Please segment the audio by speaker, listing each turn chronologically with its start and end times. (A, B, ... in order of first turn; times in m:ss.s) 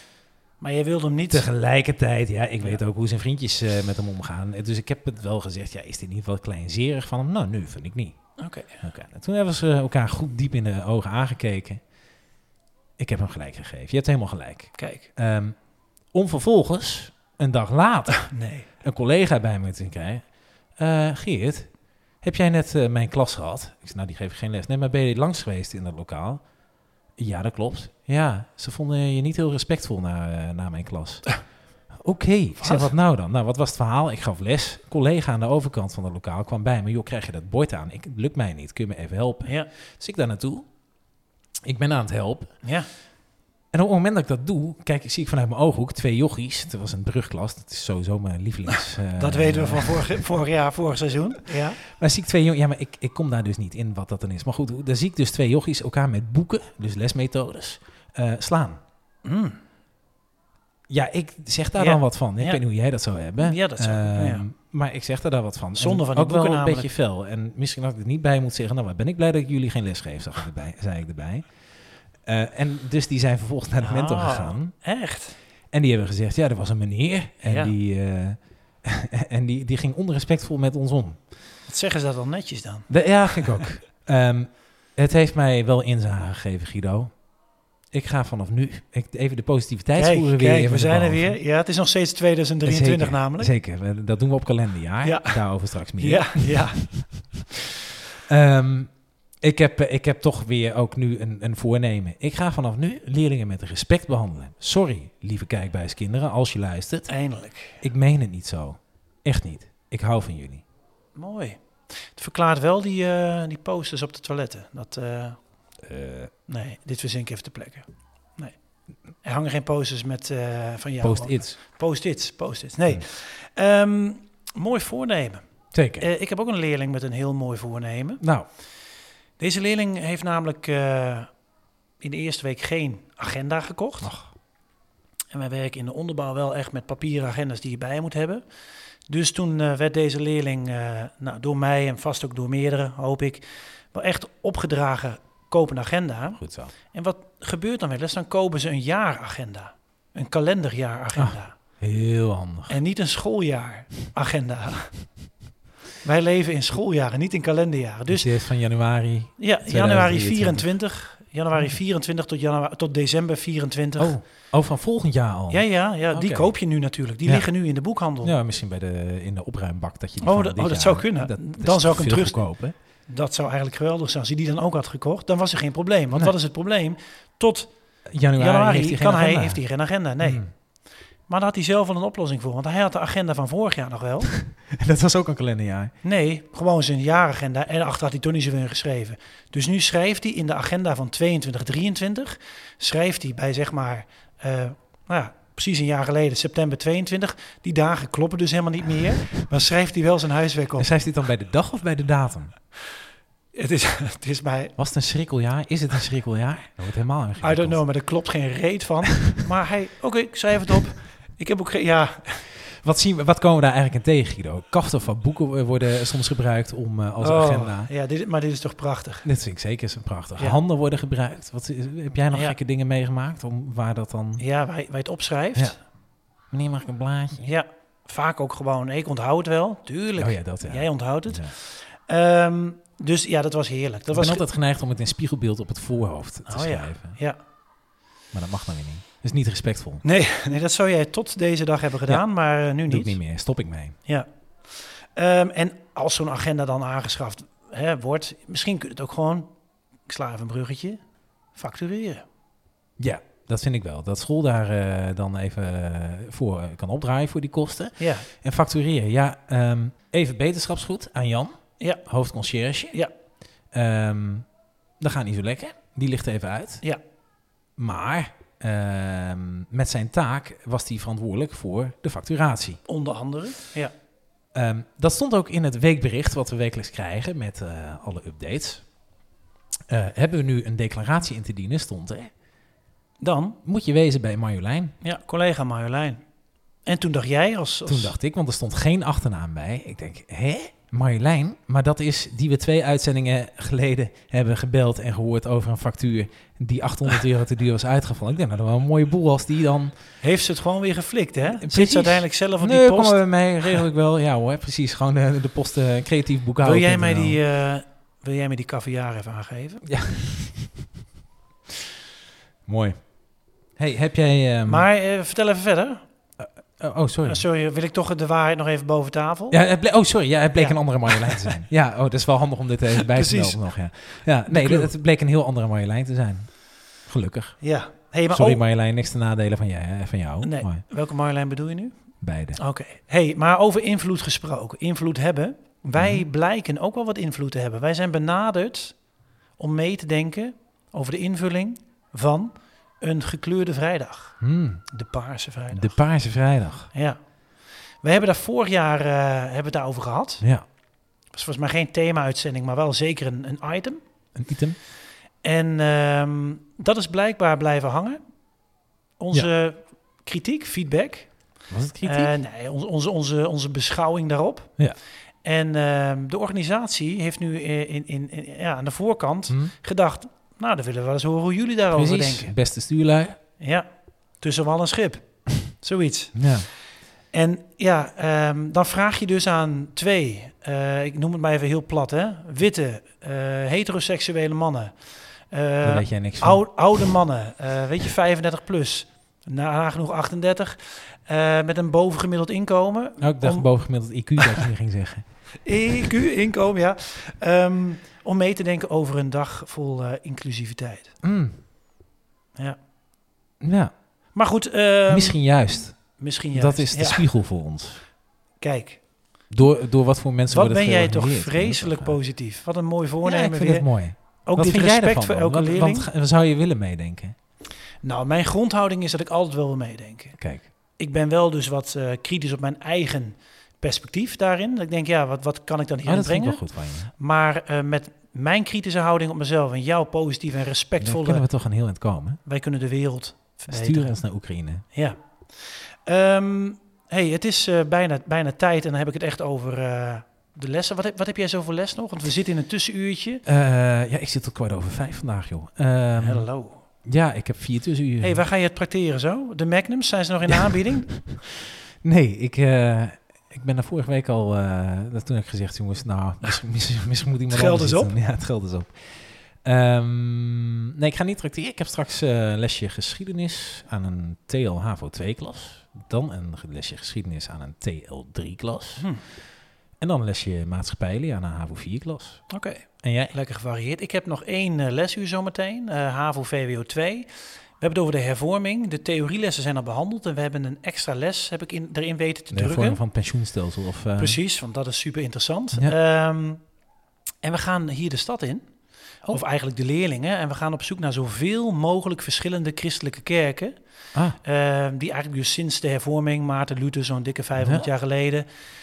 0:00.6-0:01.5 A
0:01.3-0:08.3 B
0:08.4-0:08.8 A
0:08.8-0:11.8 B
0:13.0-0:26.4 B
0:14.8-0:15.1 A
0:18.2-0:18.7 A
0:27.2-0:31.4 B
0:31.9-0:40.7 B
0:32.6-0:32.9 A
0:41.6-0:42.5 B
0:42.6-0:42.9 A
0:43.7-0:50.3 B
0:49.2-0:51.8 A
0:51.9-0:58.8 B
0:59.2-0:59.6 A
1:00.9-1:14.7 B
1:01.8-1:02.6 A
1:03.4-1:04.4 A
1:05.7-1:06.9 A
1:13.8-1:15.4 A
1:15.7-1:21.2 B
1:17.4-1:17.8 A
1:21.6-1:23.6 A
1:22.9-1:27.2 B
1:27.9-1:31.4 B
1:29.9-1:33.5 A
1:32.6-1:37.0 B
1:35.0-1:37.1 A
1:38.2-1:47.2 B
1:47.1-1:47.8 A
1:47.8-1:50.6 B
1:51.1-1:55.4 A
1:55.8-1:56.3 B
1:56.5-1:58.6 A
1:59.2-2:08.2 A
2:01.0-2:01.6 B
2:05.7-2:06.1 B
2:08.2-2:08.5 B
2:09.4-2:11.3 A
2:12.0-2:14.1 A
2:14.0-2:14.3 B
2:15.3-2:18.4 A
2:19.1-2:31.5 A
2:26.4-2:26.7 B
2:31.1-2:32.8 B
2:32.7-2:34.9 A
2:36.0-2:38.3 A
2:38.1-2:40.7 B
2:39.4-2:44.1 A
2:44.0-2:46.5 B
2:45.5-2:48.4 A
2:48.2-2:52.7 B
2:50.2-2:52.4 A
2:53.1-2:57.7 A
2:58.1-2:59.6 B
2:58.3-3:00.4 A
3:00.2-3:00.5 B
3:01.3-3:04.4 A
3:04.7-3:05.9 B
3:06.0-3:20.9 A
3:20.8-3:22.5 B
3:23.5-3:24.7 A
3:24.8-3:27.8 B
3:27.4-3:32.5 A
3:32.6-3:37.9 B
3:37.2-3:39.3 A
3:39.2-3:44.4 B
3:42.3-3:42.6 A
3:44.4-3:45.8 A
3:46.5-3:47.5 B
3:47.4-3:54.4 A
3:50.2-3:51.5 B
3:54.1-3:57.2 B
3:56.5-3:57.4 A
3:58.3-4:00.0 B
4:00.0-4:03.2 A
4:02.8-4:04.0 B
4:04.0-4:09.5 A
4:10.0-4:11.0 A
4:11.5-4:12.2 A
4:13.0-4:21.5 B
4:18.0-4:18.3 A
4:21.8-4:22.1 A
4:22.0-4:23.0 B
4:23.7-4:24.5 B
4:25.0-4:26.8 B
4:27.8-4:32.8 B
4:32.8-4:33.9 A
4:34.5-4:38.9 B
4:39.9-4:42.3 B
4:43.2-4:43.6 A
4:43.6-4:44.9 B
4:45.0-4:46.2 A
4:46.8-4:48.1 A
4:47.9-5:00.0 B
5:00.2-5:03.8 A
5:01.5-5:07.4 B
5:06.6-5:09.8 A
5:09.9-5:10.6 B
5:12.6-5:13.0 B
5:13.8-5:14.9 B
5:14.6-5:16.0 A
5:16.4-5:17.4 B
5:17.2-5:19.6 A
5:19.5-5:27.6 B
5:20.5-5:21.6 A
5:23.0-5:23.7 A
5:24.4-5:24.9 A
5:27.6-5:28.6 A
5:28.3-5:30.8 B
5:30.4-5:32.0 A
5:32.2-5:32.6 B
5:32.5-5:39.0 A
5:36.0-5:36.2 B
5:39.6-5:46.2 A
5:44.4-5:44.8 B
5:45.7-5:46.9 B
5:46.9-5:47.2 A
5:48.0-5:50.4 A
5:51.3-5:54.0 A
5:54.3-5:54.8 B
5:55.4-5:58.2 A
5:59.2-6:01.5 A
6:01.7-6:02.3 B
6:02.0-6:04.7 A
6:05.4-6:12.5 A
6:11.9-6:13.4 B
6:13.6-6:16.5 A
6:16.3-6:16.7 B
6:17.3-6:33.7 A
6:25.8-6:26.6 B
6:33.2-6:35.2 B
6:34.4-6:34.7 A
6:35.6-6:41.1 A
6:41.2-6:41.6 B
6:43.6-6:43.9 B
6:44.3-6:45.4 A
6:45.1-6:48.0 B
6:46.2-6:47.3 A
6:48.6-6:49.0 A
6:49.5-6:52.2 B
6:50.5-6:53.9 A
6:53.2-6:57.3 B
6:54.4-6:56.1 A
6:58.0-7:00.4 A
7:00.4-7:00.6 B
7:01.0-7:11.4 A
7:06.0-7:07.1 B
7:11.0-7:12.4 B
7:12.4-7:23.4 A
7:13.7-7:14.8 B
7:23.4-7:28.4 B
7:26.2-7:26.8 A
7:28.2-7:31.1 A
7:32.0-7:49.1 B
7:37.5-7:38.1 A
7:49.0-7:49.2 A
7:50.0-7:52.5 B
7:52.5-8:03.0 A
7:53.0-7:53.3 B
8:02.5-8:04.4 B
8:04.2-8:06.6 A
8:07.4-8:08.7 A
8:09.2-8:13.8 A
8:14.4-8:18.5 A
8:17.6-8:17.9 B